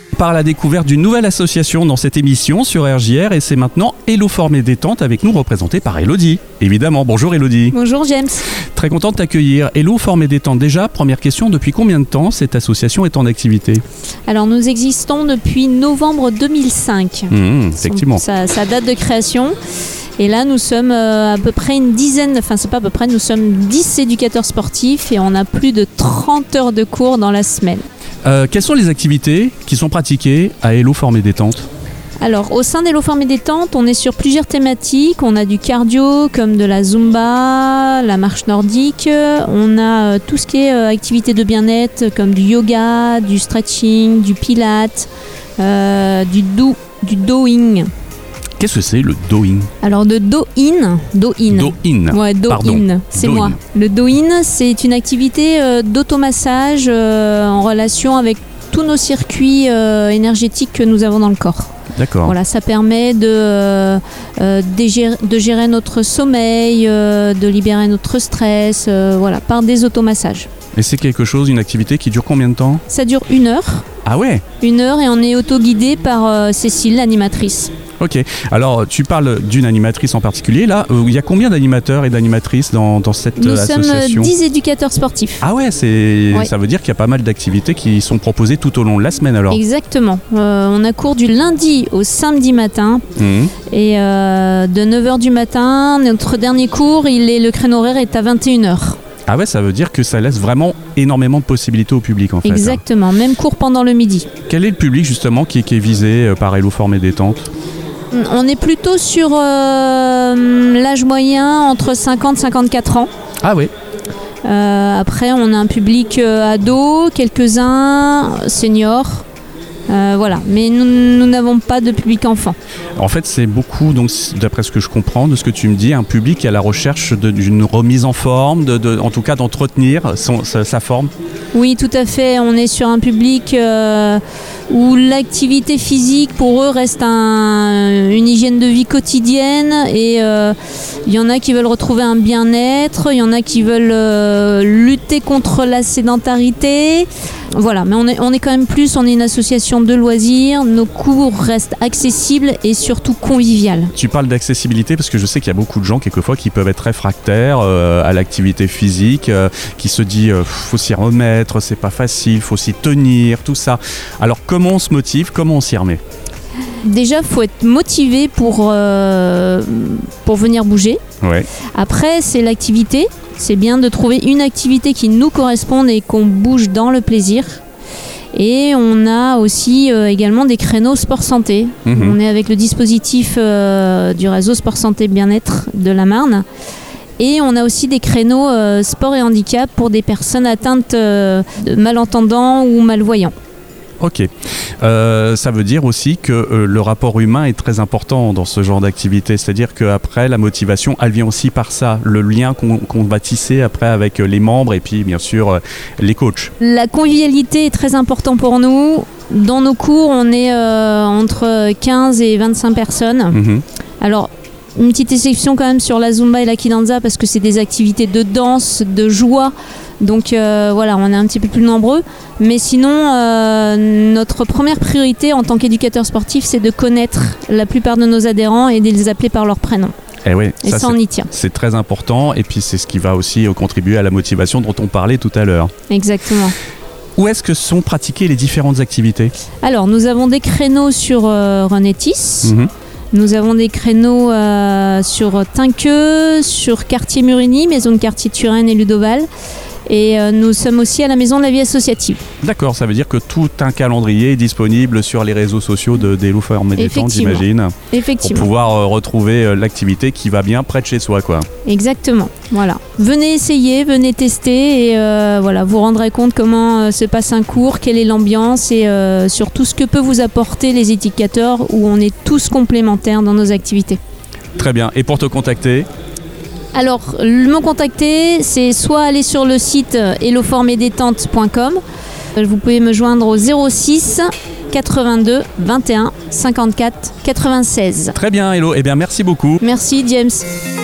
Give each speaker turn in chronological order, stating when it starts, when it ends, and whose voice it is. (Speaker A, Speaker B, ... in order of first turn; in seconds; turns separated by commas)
Speaker A: 0.1-7.8, Speaker B: 7.7-8.5, Speaker A: 8.8-13.8, Speaker B: 14.3-19.6, Speaker A: 17.3-18.2, Speaker B: 20.2-27.9, Speaker A: 28.3-31.7, Speaker B: 32.2-47.9, Speaker A: 48.6-49.7, Speaker B: 49.8-61.7, Speaker A: 51.5-53.6, Speaker A: 61.9-62.4, Speaker B: 62.2-70.5, Speaker A: 70.8-72.8, Speaker B: 72.9-73.9, Speaker A: 74.0-74.4, Speaker B: 74.6-77.7, Speaker A: 78.0-84.3, Speaker B: 83.4-85.4, Speaker A: 85.4-89.6, Speaker B: 89.5-93.0, Speaker A: 93.2-93.5, Speaker B: 93.7-99.0, Speaker A: 99.3-102.8, Speaker B: 102.4-104.3, Speaker A: 104.5-107.5, Speaker B: 108.1-113.1, Speaker A: 113.4-113.7, Speaker B: 114.4-119.3, Speaker B: 119.9-122.6, Speaker A: 123.0-131.1, Speaker B: 131.5-153.9, Speaker A: 154.0-166.0, Speaker B: 166.8-171.0, Speaker A: 171.2-171.5, Speaker B: 171.8-177.6, Speaker B: 178.3-186.4, Speaker A: 181.9-182.2, Speaker B: 187.2-193.3, Speaker A: 194.0-194.3, Speaker A: 194.8-206.5, Speaker B: 206.6-213.4, Speaker A: 213.3-213.6, Speaker B: 214.0-229.9, Speaker A: 230.2-235.7, Speaker B: 230.6-231.3, Speaker B: 235.9-236.6, Speaker A: 237.2-239.3, Speaker B: 239.6-242.6, Speaker A: 242.4-242.7, Speaker B: 243.1-249.3, Speaker B: 249.9-252.2, Speaker A: 252.4-261.5, Speaker B: 256.8-258.5, Speaker B: 261.7-274.0, Speaker A: 274.6-275.9, Speaker B: 276.7-281.8, Speaker B: 282.4-288.2, Speaker A: 288.1-289.6, Speaker B: 289.6-290.5